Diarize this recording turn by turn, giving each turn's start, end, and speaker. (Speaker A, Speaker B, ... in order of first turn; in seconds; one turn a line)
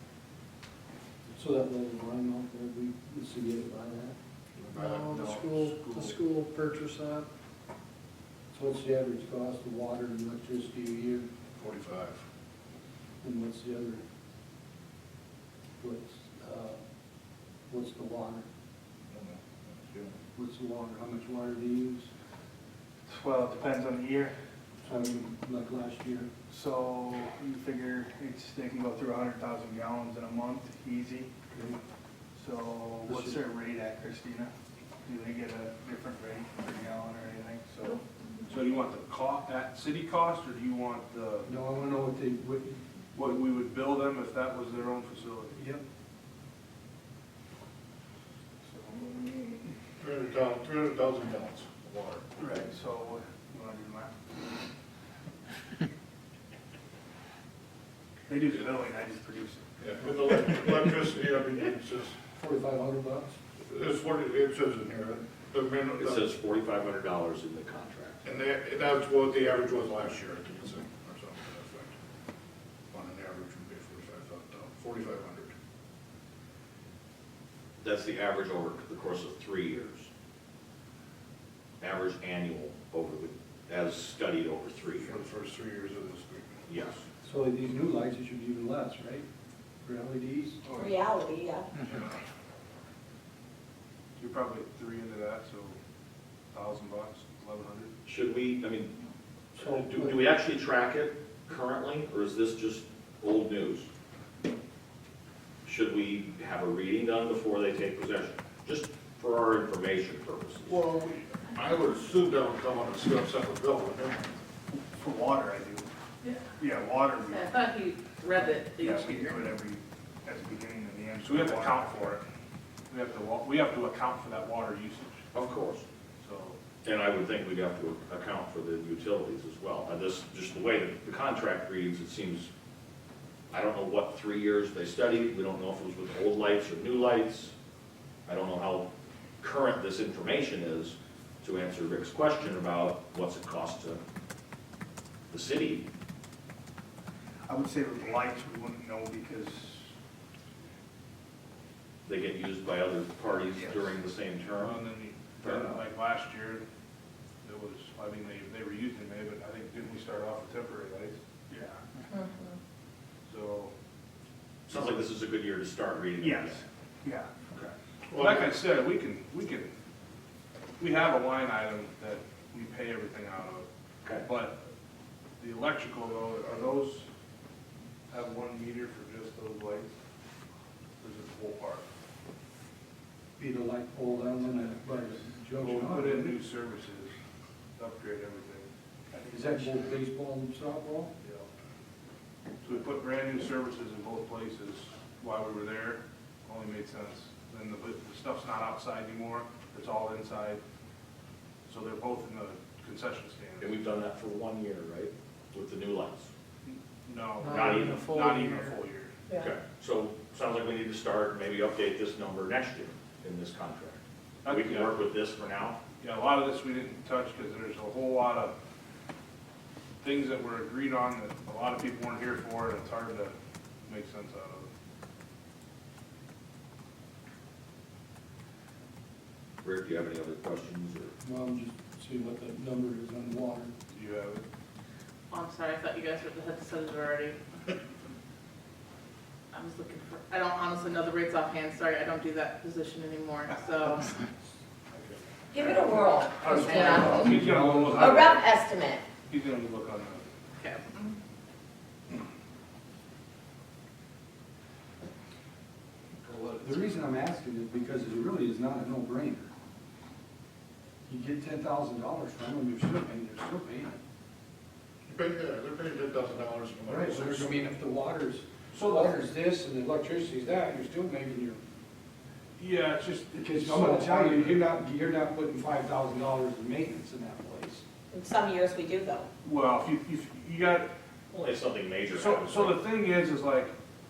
Speaker A: 1.3-4.2
Speaker B: 4.6-5.5
Speaker C: 4.9-7.3
Speaker A: 8.5-11.3
Speaker B: 11.6-12.2
Speaker A: 13.2-14.0
Speaker A: 15.8-16.8
Speaker A: 17.7-18.4
Speaker B: 19.1-20.1
Speaker A: 20.3-22.1
Speaker D: 23.1-24.3
Speaker A: 24.8-26.3
Speaker D: 26.5-31.3
Speaker A: 31.5-31.8
Speaker D: 32.3-34.5
Speaker A: 33.0-33.4
Speaker D: 35.0-38.0
Speaker E: 38.5-41.5
Speaker A: 41.4-42.8
Speaker E: 43.1-45.6
Speaker A: 45.5-45.8
Speaker D: 48.6-49.6
Speaker B: 50.0-52.3
Speaker D: 52.4-54.1
Speaker D: 58.3-59.7
Speaker B: 59.8-62.2
Speaker A: 62.3-63.4
Speaker B: 63.6-66.2
Speaker F: 66.0-68.2
Speaker B: 68.2-72.0
Speaker B: 72.9-75.5
Speaker F: 77.8-80.1
Speaker F: 81.8-85.1
Speaker B: 85.0-87.0
Speaker F: 86.7-87.0
Speaker A: 87.2-89.2
Speaker A: 89.8-90.6
Speaker G: 90.7-91.7
Speaker B: 91.8-92.1
Speaker E: 94.2-95.8
Speaker E: 96.5-97.9
Speaker F: 98.0-99.0
Speaker F: 99.5-103.9
Speaker A: 99.6-100.1
Speaker F: 105.6-110.8
Speaker B: 110.7-114.4
Speaker D: 114.9-115.9
Speaker H: 116.2-116.5
Speaker D: 116.6-117.5
Speaker H: 117.2-119.4
Speaker D: 118.4-122.2
Speaker E: 121.2-122.2
Speaker E: 122.9-125.2
Speaker F: 125.3-125.8
Speaker E: 126.2-126.6
Speaker F: 126.8-132.5
Speaker F: 133.5-137.5
Speaker F: 138.2-138.9
Speaker F: 139.4-144.0
Speaker F: 145.3-145.9
Speaker D: 147.5-149.9
Speaker F: 152.1-154.8
Speaker D: 153.5-153.9
Speaker E: 154.6-156.6
Speaker F: 155.4-155.8
Speaker E: 157.4-161.2
Speaker D: 161.5-162.0
Speaker G: 162.1-162.6
Speaker E: 163.2-163.7
Speaker F: 164.7-166.6
Speaker D: 166.2-167.3
Speaker B: 168.1-168.5
Speaker E: 168.2-169.7
Speaker E: 170.8-173.7
Speaker E: 174.2-174.6
Speaker E: 175.4-177.1
Speaker E: 178.1-179.9
Speaker E: 181.0-181.8
Speaker A: 183.4-186.4
Speaker E: 185.6-187.2
Speaker E: 187.8-188.7
Speaker D: 189.1-189.9
Speaker A: 189.3-191.1
Speaker E: 191.2-191.5
Speaker E: 192.6-200.6
Speaker E: 201.7-203.7
Speaker F: 203.6-206.3
Speaker E: 206.7-209.2
Speaker C: 207.4-208.8
Speaker F: 207.4-208.0
Speaker F: 209.3-215.8
Speaker E: 214.4-214.9
Speaker E: 216.0-218.6
Speaker E: 220.0-223.3
Speaker E: 223.8-224.7
Speaker F: 229.6-231.1
Speaker A: 231.2-233.7
Speaker E: 233.9-234.5
Speaker H: 235.3-237.4
Speaker H: 239.5-244.1
Speaker E: 244.9-248.5
Speaker G: 245.5-247.4
Speaker A: 246.4-248.3
Speaker H: 246.7-247.1
Speaker G: 248.0-249.0
Speaker E: 249.3-250.2
Speaker H: 250.6-251.1
Speaker E: 256.2-256.6
Speaker A: 256.6-259.5
Speaker A: 261.1-264.0
Speaker B: 265.1-267.7
Speaker A: 266.9-271.6
Speaker E: 268.7-269.2
Speaker E: 272.6-274.7
Speaker A: 273.4-277.8
Speaker G: 278.1-279.3
Speaker E: 279.4-280.9
Speaker F: 281.3-282.8
Speaker E: 282.1-283.7